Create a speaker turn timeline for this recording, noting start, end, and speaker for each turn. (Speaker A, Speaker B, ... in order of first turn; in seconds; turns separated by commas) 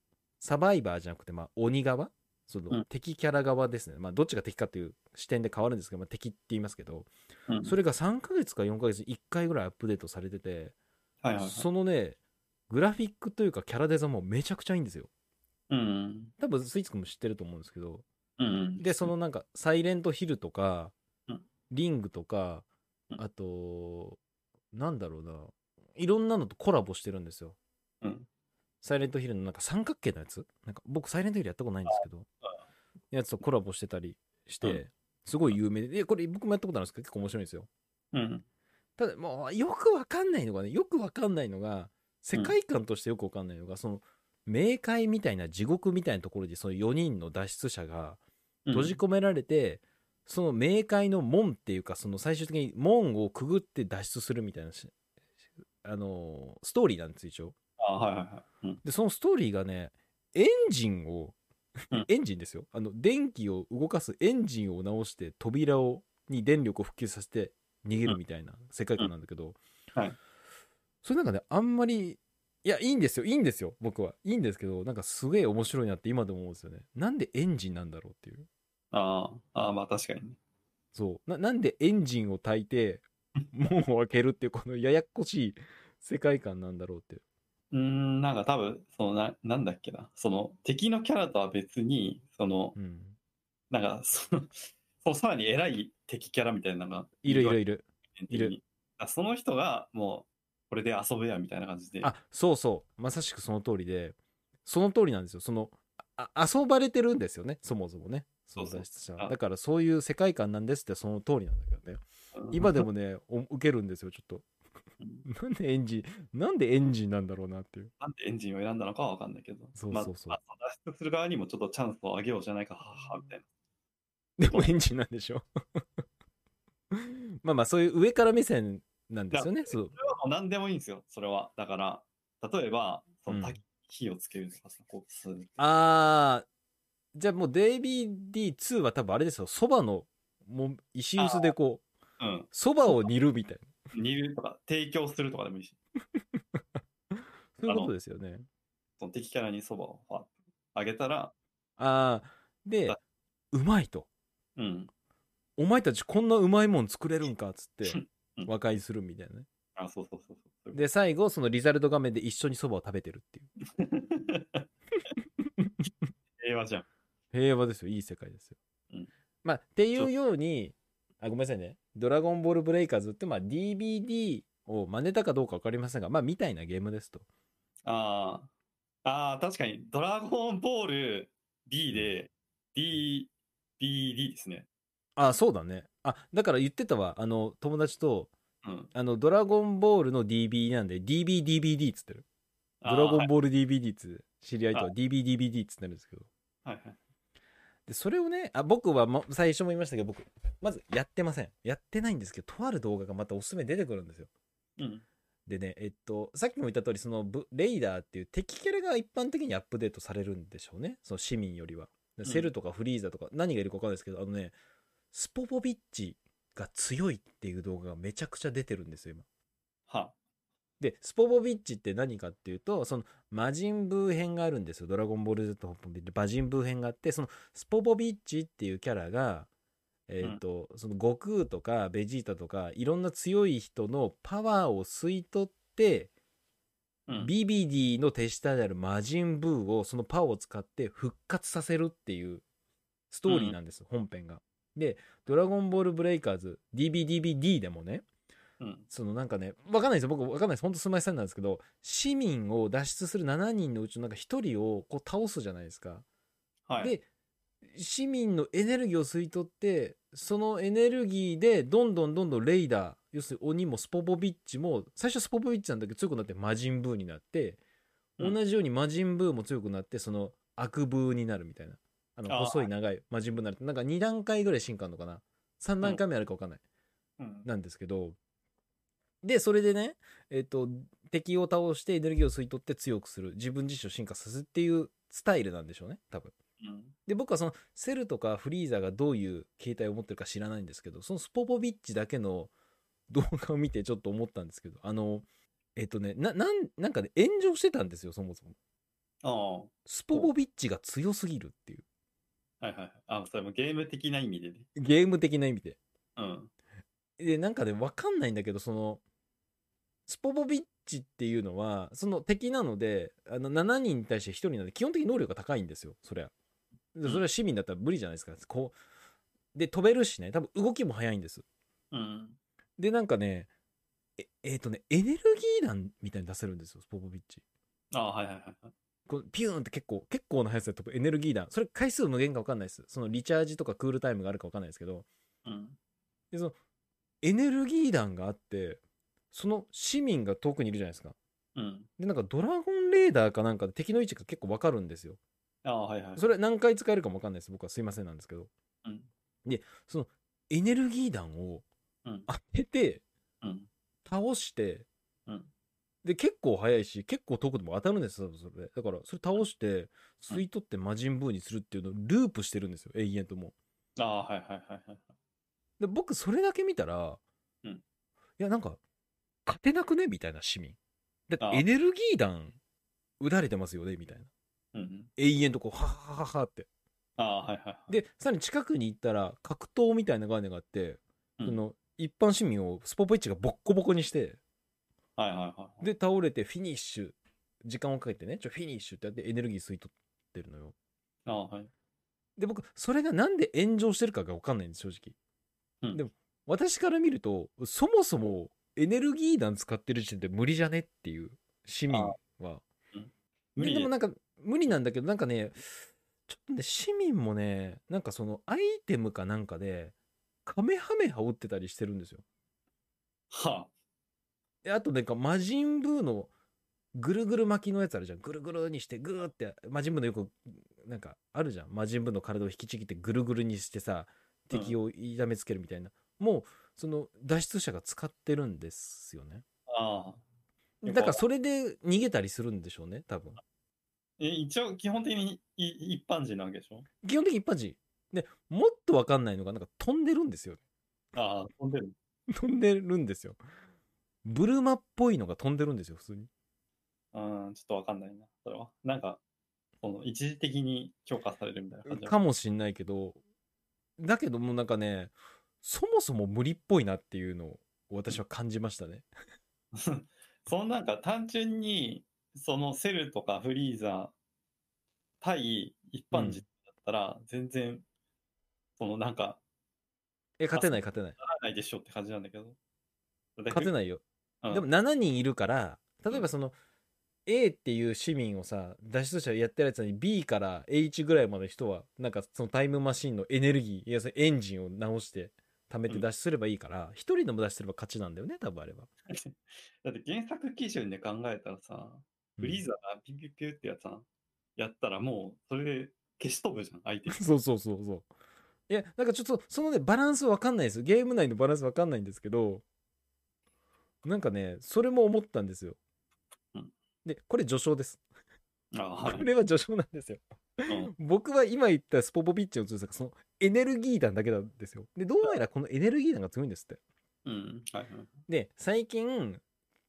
Speaker A: 0.4-7.1, Speaker B: 7.5-7.7, Speaker A: 7.6-10.7, Speaker B: 11.2-11.7, Speaker A: 11.4-12.2, Speaker A: 12.7-15.1, Speaker B: 15.7-16.3, Speaker A: 16.4-18.0, Speaker B: 18.4-19.1, Speaker A: 18.8-20.9, Speaker A: 21.7-22.6, Speaker A: 23.2-24.2, Speaker A: 24.7-27.6, Speaker B: 28.0-28.3, Speaker A: 28.8-32.3, Speaker B: 31.9-32.5, Speaker A: 33.1-37.7, Speaker B: 38.1-38.4, Speaker A: 39.0-48.2, Speaker B: 48.6-49.0, Speaker A: 48.7-54.9, Speaker A: 55.8-57.5, Speaker B: 57.8-58.8, Speaker A: 58.8-61.4, Speaker A: 62.0-69.6, Speaker A: 71.0-78.5, Speaker B: 78.9-80.4, Speaker A: 80.9-87.2, Speaker B: 87.7-92.8, Speaker A: 92.8-93.2, Speaker B: 93.7-97.6, Speaker A: 97.2-98.5, Speaker B: 98.2-102.1, Speaker A: 102.0-114.5, Speaker B: 108.5-109.3, Speaker B: 112.3-112.8, Speaker B: 115.0-115.2, Speaker A: 115.2-117.9, Speaker B: 118.0-123.5, Speaker A: 119.7-120.4, Speaker A: 124.4-126.0, Speaker A: 126.9-129.9, Speaker B: 129.3-135.5, Speaker A: 133.3-133.6, Speaker A: 135.6-136.4, Speaker A: 137.1-141.8, Speaker B: 141.2-141.5, Speaker B: 142.2-142.5, Speaker A: 142.5-143.7, Speaker B: 143.9-145.8, Speaker A: 146.2-146.8, Speaker A: 147.6-148.4, Speaker B: 147.7-147.9, Speaker B: 149.0-151.3, Speaker A: 151.8-153.0, Speaker A: 153.5-154.1, Speaker B: 154.6-154.9, Speaker A: 155.6-159.5, Speaker B: 157.8-158.5, Speaker B: 159.8-160.8, Speaker A: 160.7-163.5, Speaker B: 163.7-164.7, Speaker B: 166.4-166.8, Speaker A: 167.3-168.6, Speaker A: 169.4-177.2, Speaker B: 177.8-178.5, Speaker B: 179.0-184.7, Speaker A: 185.2-188.3, Speaker B: 188.6-188.9, Speaker A: 188.9-192.2, Speaker B: 192.8-193.3, Speaker A: 192.8-196.3, Speaker B: 196.6-197.0, Speaker A: 197.9-204.3, Speaker B: 204.8-205.0, Speaker A: 205.5-214.5, Speaker B: 212.2-212.5, Speaker A: 215.1-219.2, Speaker B: 219.9-220.2, Speaker A: 220.8-229.5, Speaker A: 230.1-236.1, Speaker A: 237.2-242.4, Speaker A: 243.1-248.0, Speaker B: 243.3-243.6, Speaker B: 248.6-248.8, Speaker A: 248.9-256.0, Speaker B: 256.7-256.9, Speaker A: 256.8-257.0, Speaker A: 257.6-267.6, Speaker A: 268.2-276.6, Speaker B: 272.3-272.7, Speaker B: 277.2-277.5, Speaker A: 277.4-278.2, Speaker A: 279.2-286.3, Speaker B: 286.6-286.9, Speaker A: 287.1-292.5, Speaker A: 293.1-298.5, Speaker B: 299.2-300.3, Speaker A: 299.9-301.8, Speaker B: 302.6-304.7, Speaker A: 304.8-305.8, Speaker B: 306.2-306.5, Speaker A: 307.2-309.0, Speaker A: 310.1-316.3, Speaker A: 316.9-318.8, Speaker A: 319.5-321.4, Speaker B: 321.9-322.4, Speaker A: 322.8-323.5, Speaker A: 324.2-327.4, Speaker B: 327.9-328.7, Speaker A: 329.1-335.1, Speaker B: 335.4-335.8, Speaker A: 337.2-338.8, Speaker A: 339.3-341.1, Speaker B: 341.6-341.9, Speaker A: 342.0-345.2, Speaker B: 345.6-346.3, Speaker A: 346.2-348.5, Speaker B: 348.8-349.1, Speaker A: 349.4-351.6, Speaker A: 352.3-353.0, Speaker B: 353.4-353.7, Speaker A: 354.0-354.9, Speaker A: 356.0-363.5, Speaker B: 364.0-365.1, Speaker A: 365.8-367.2, Speaker A: 368.4-368.8, Speaker A: 369.4-370.8, Speaker A: 371.3-372.6, Speaker A: 373.2-374.3, Speaker B: 374.7-375.1, Speaker A: 375.2-376.7, Speaker B: 377.2-377.9, Speaker A: 377.9-384.4, Speaker B: 385.2-385.8, Speaker A: 385.8-390.7, Speaker B: 391.2-391.7, Speaker A: 392.4-395.1, Speaker A: 395.9-402.6, Speaker B: 401.9-402.2, Speaker B: 402.9-403.9, Speaker A: 403.6-409.9, Speaker A: 410.4-412.2, Speaker B: 413.3-413.7, Speaker A: 414.6-416.3, Speaker A: 416.9-429.4, Speaker B: 429.7-430.2, Speaker A: 430.8-433.4, Speaker B: 430.8-431.2, Speaker B: 434.2-436.9, Speaker A: 437.0-440.6, Speaker B: 441.1-441.9, Speaker A: 442.3-443.4, Speaker A: 444.2-446.3, Speaker B: 447.1-449.2, Speaker B: 449.8-452.1, Speaker A: 451.9-453.2, Speaker A: 454.0-459.1, Speaker B: 459.7-464.1, Speaker B: 465.2-467.8, Speaker A: 466.1-466.4, Speaker B: 468.8-469.4, Speaker A: 470.4-471.1, Speaker B: 470.5-472.6, Speaker B: 473.4-473.7, Speaker A: 473.5-476.5, Speaker A: 477.2-488.9, Speaker B: 489.1-494.0, Speaker A: 492.4-492.7, Speaker B: 494.6-497.2, Speaker A: 497.1-498.1, Speaker A: 498.7-502.6, Speaker A: 504.0-505.8, Speaker A: 507.0-508.0, Speaker B: 508.7-509.3, Speaker A: 509.0-516.8, Speaker B: 510.7-510.9, Speaker B: 517.2-518.1, Speaker A: 518.3-519.4